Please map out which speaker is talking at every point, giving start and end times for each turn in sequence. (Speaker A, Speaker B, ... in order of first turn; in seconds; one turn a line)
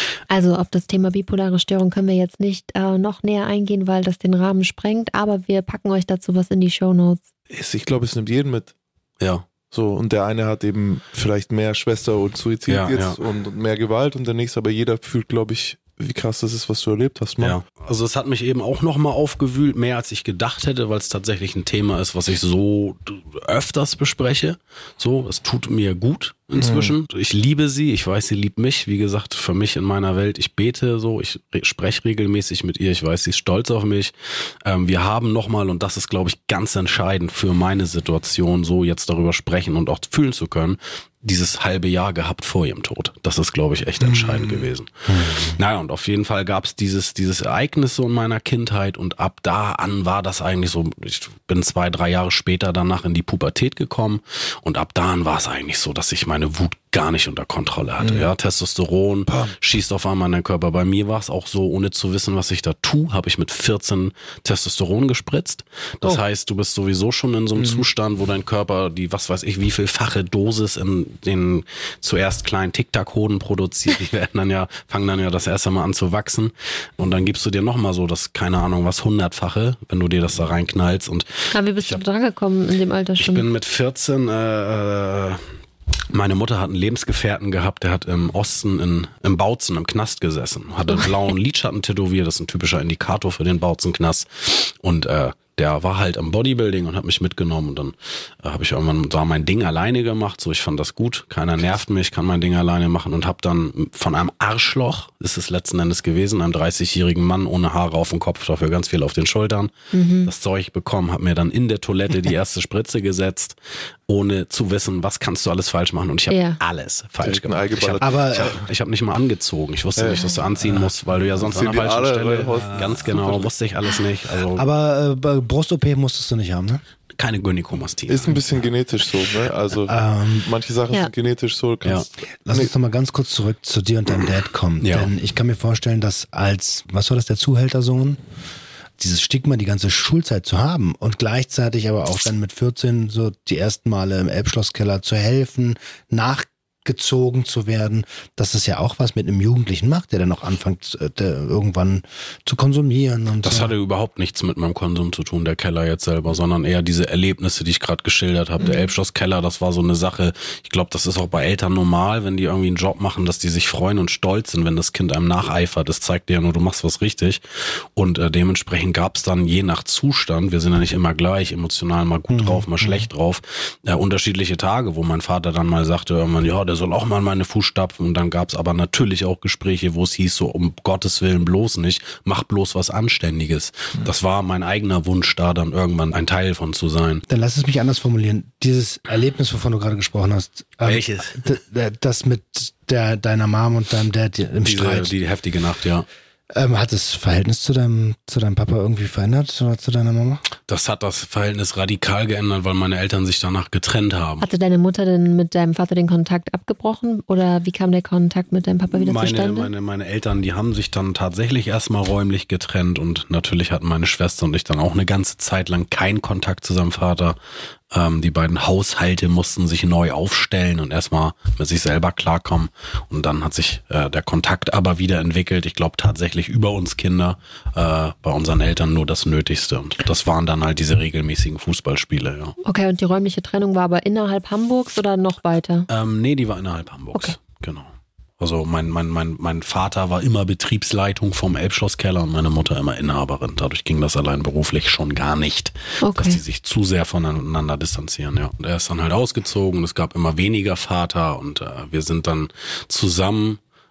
Speaker A: 0.3-7.2
Speaker B: 7.5-8.7
Speaker B: 9.7-17.6
Speaker C: 12.7-13.2
Speaker C: 17.4-34.1
Speaker B: 26.6-26.9
Speaker C: 34.6-82.0
Speaker D: 44.0-44.4
Speaker D: 45.1-45.6
Speaker B: 58.0-58.3
Speaker B: 67.6-67.8
Speaker A: 81.5-83.5
Speaker C: 83.2-85.4
Speaker C: 86.1-109.7
Speaker A: 109.9-110.3
Speaker C: 110.2-113.6
Speaker C: 114.1-124.7
Speaker A: 116.3-116.6
Speaker B: 117.2-118.6
Speaker D: 118.0-118.5
Speaker B: 120.0-120.2
Speaker A: 120.1-120.4
Speaker D: 120.6-120.9
Speaker B: 121.4-123.5
Speaker D: 122.5-123.2
Speaker D: 124.5-126.8
Speaker C: 127.2-128.4
Speaker B: 128.1-132.7
Speaker D: 129.9-130.5
Speaker D: 132.4-138.2
Speaker C: 134.8-135.1
Speaker D: 139.0-153.7
Speaker C: 153.4-187.2
Speaker A: 158.6-158.9
Speaker D: 172.3-173.1
Speaker D: 187.3-195.1
Speaker C: 190.8-191.5
Speaker C: 194.6-196.1
Speaker D: 196.5-200.4
Speaker C: 200.7-204.4
Speaker A: 204.4-209.7
Speaker C: 208.9-217.4
Speaker C: 217.9-232.6
Speaker A: 232.6-235.9
Speaker C: 235.9-237.9
Speaker C: 238.4-253.6
Speaker A: 246.0-246.4